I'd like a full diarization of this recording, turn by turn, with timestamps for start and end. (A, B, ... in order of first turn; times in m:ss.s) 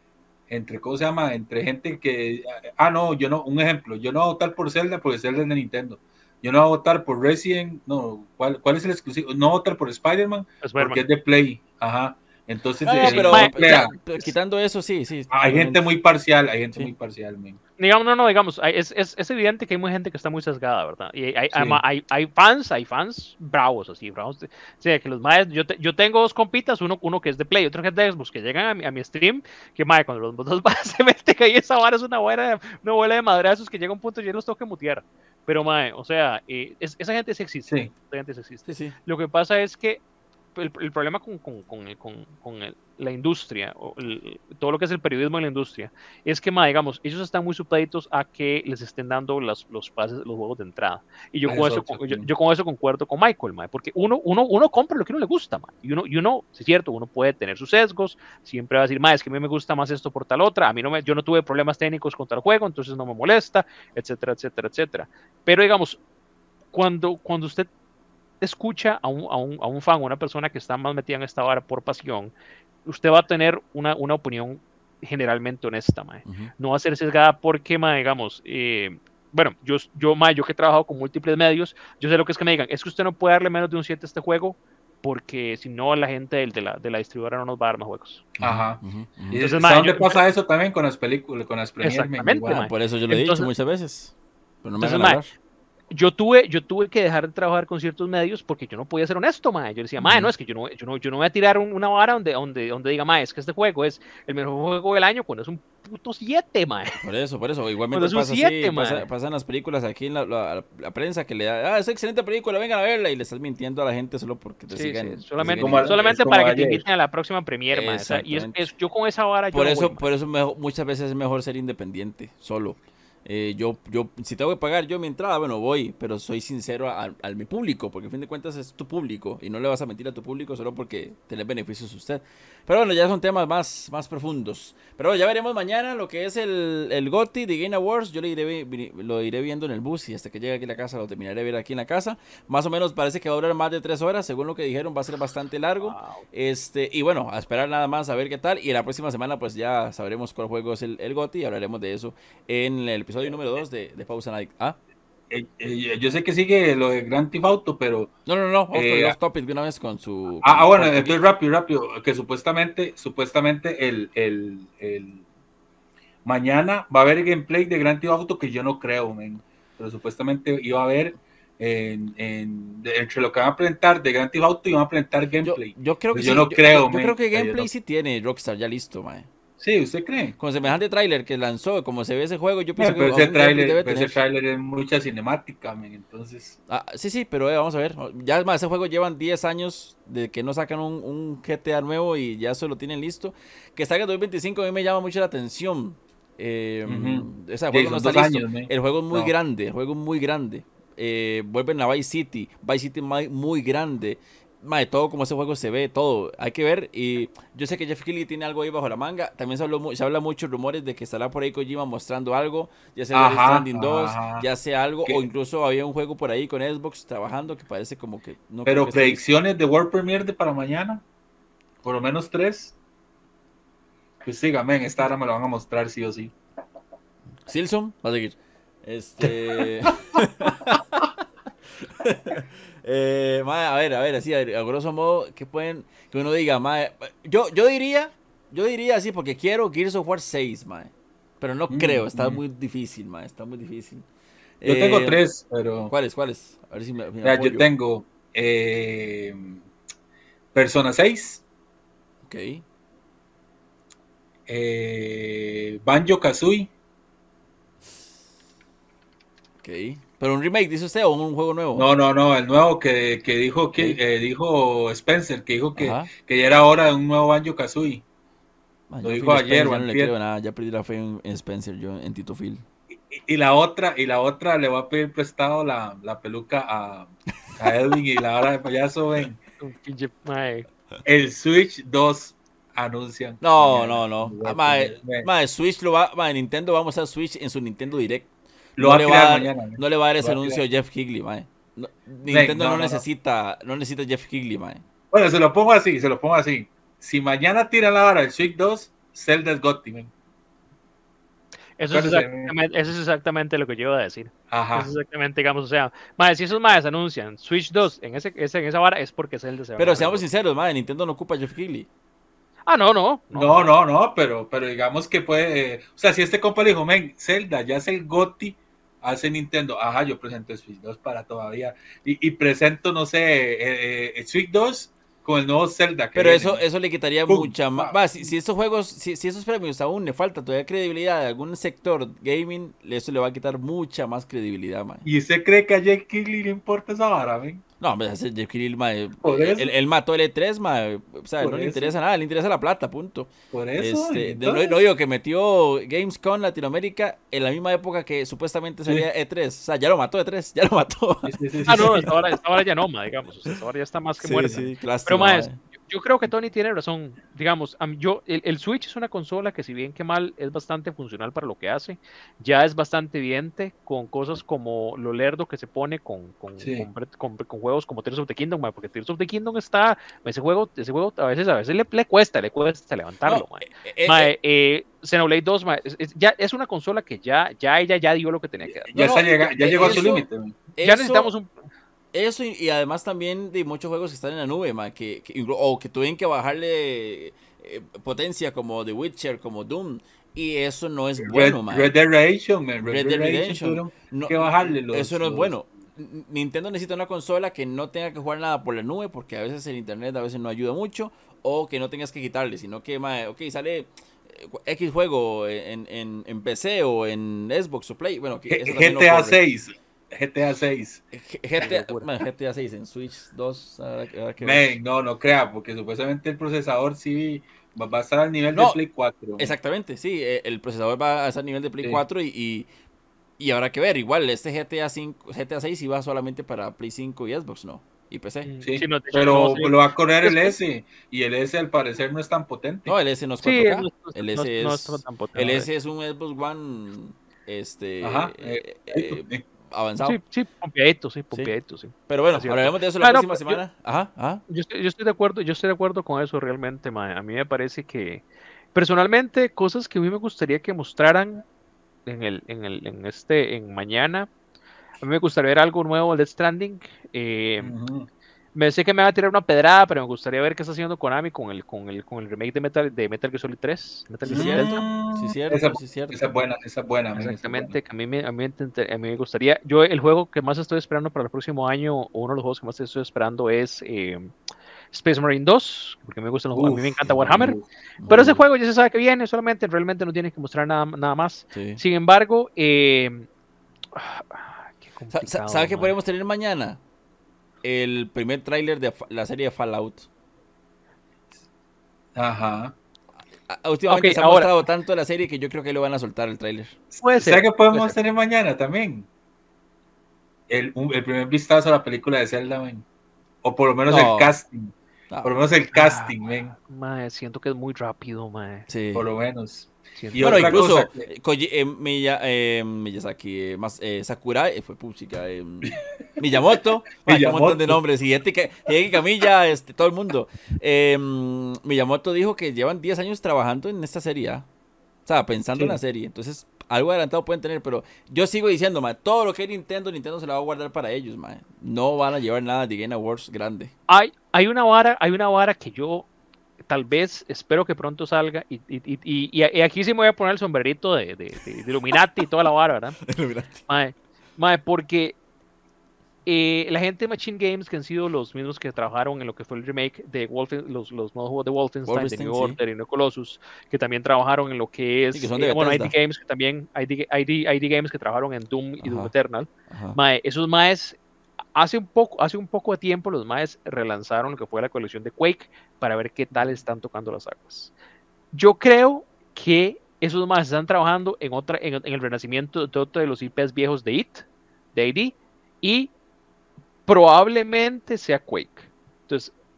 0:00.5-0:13.9 A
0:10.6-0:11.0 B
0:12.8-0:15.9 C
0:13.0-0:14.0 B
0:15.3-0:17.6 A
0:17.8-0:40.0 B
0:21.5-0:21.8 A
0:38.7-0:39.0 C
0:40.6-1:06.0 B
0:51.5-0:52.3 A
1:06.7-1:07.7 B
1:08.4-1:12.3 B
1:12.8-1:28.2 B
1:16.2-1:16.5 C
1:28.4-1:29.4 C
1:28.4-1:32.6 A
1:29.3-1:30.2 B
1:31.8-1:33.5 B
1:32.5-1:35.3 C
1:34.8-1:35.2 B
1:35.9-1:47.0 B
1:40.0-1:40.3 C
1:47.0-1:56.0 C
1:47.9-1:49.1 B
1:54.7-2:00.0 B
1:55.4-1:56.8 A
1:57.7-1:58.7 C
1:59.5-2:34.8 C
2:25.8-2:26.2 B
2:35.3-2:38.1 A
2:38.3-2:41.2 C
2:38.7-2:39.2 A
2:40.4-2:45.2 A
2:46.2-2:57.7 A
2:55.4-2:59.3 C
2:59.6-3:00.4 A
3:00.4-3:04.2 C
3:02.8-3:06.6 A
3:06.7-3:39.2 C
3:16.8-3:19.3 A
3:33.1-3:34.5 A
3:38.6-3:41.0 A
3:41.8-3:42.7 A
3:44.2-3:46.3 A
3:47.5-3:51.2 C
3:49.3-3:50.0 A
3:51.8-4:04.1 C
4:01.7-4:02.4 A
4:04.6-4:05.2 C
4:04.6-4:05.9 A
4:05.9-4:07.7 C
4:07.2-4:09.6 A
4:10.5-4:11.4 A
4:12.3-4:12.6 C
4:14.5-4:16.7 A
4:19.6-4:21.9 C
4:21.8-4:28.0 A
4:25.8-4:26.1 C
4:28.9-4:32.6 C
4:29.0-4:30.1 A
4:33.1-4:39.4 A
4:39.6-4:40.7 B
4:41.0-4:45.3 A
4:43.4-4:54.8 C
4:48.8-4:50.6 A
4:52.3-4:53.0 A
4:55.1-5:00.1 A
5:01.8-5:10.2 B
5:01.9-5:02.5 A
5:04.5-5:04.9 A
5:09.8-5:11.9 C
5:12.7-5:13.7 B
5:13.3-5:26.6 A
5:26.2-5:35.0 C
5:27.3-5:28.3 A
5:35.0-5:37.6 A
5:37.8-5:52.4 C
5:39.2-5:39.7 A
5:41.4-5:41.9 A
5:43.5-5:44.8 A
5:51.2-5:52.1 A
5:51.7-6:20.1 B
5:54.2-5:55.6 C
6:06.6-6:06.9 A
6:13.2-6:14.3 C
6:18.7-6:20.5 A
6:18.9-6:21.3 C
6:20.8-6:21.5 B
6:22.1-6:31.9 C
6:31.2-6:35.6 A
6:32.8-6:49.4 C
6:48.5-6:51.0 A
6:51.1-6:54.8 C
6:51.6-6:52.1 B
6:54.4-6:59.5 A
6:59.4-7:02.7 C
7:03.4-7:08.5 C
7:08.4-7:10.6 B
7:08.6-7:13.0 A
7:12.9-7:20.2 C
7:13.4-7:15.7 B
7:18.0-7:19.4 A
7:20.0-7:23.6 B
7:22.1-7:24.4 C
7:24.5-7:31.4 B
7:32.1-7:34.3 B
7:35.0-7:37.7 B
7:37.6-7:38.1 A
7:38.6-7:44.9 B
7:44.2-7:46.4 C
7:44.3-7:47.8 A
7:47.2-7:54.3 B
7:54.9-8:03.3 B
7:56.5-7:57.6 A
7:57.1-7:58.4 C
8:01.5-8:01.8 C
8:04.0-8:05.9 B
8:05.1-8:06.8 C
8:07.6-8:10.1 C
8:12.2-8:12.8 A
8:13.5-8:16.8 C
8:13.9-8:14.5 B
8:17.0-8:18.0 B
8:17.1-8:19.1 A
8:20.5-8:22.8 A
8:23.4-8:26.6 A
8:23.9-8:24.3 C
8:25.7-8:26.1 B
8:26.6-8:28.7 B
8:28.7-8:29.1 C
8:28.9-8:31.1 A
8:30.0-8:30.6 B
8:30.2-8:44.5 C
8:35.7-8:36.5 A
8:37.0-8:37.8 A
8:45.1-8:53.7 C
8:53.9-8:56.1 B
8:56.7-9:03.0 B
9:03.0-9:03.6 C
9:03.7-9:05.2 B
9:06.3-9:21.0 B
9:11.9-9:12.6 C
9:15.1-9:15.9 C
9:18.8-9:19.1 C
9:19.7-9:20.0 C
9:21.6-9:27.7 B
9:28.3-9:35.9 B
9:36.9-9:39.3 B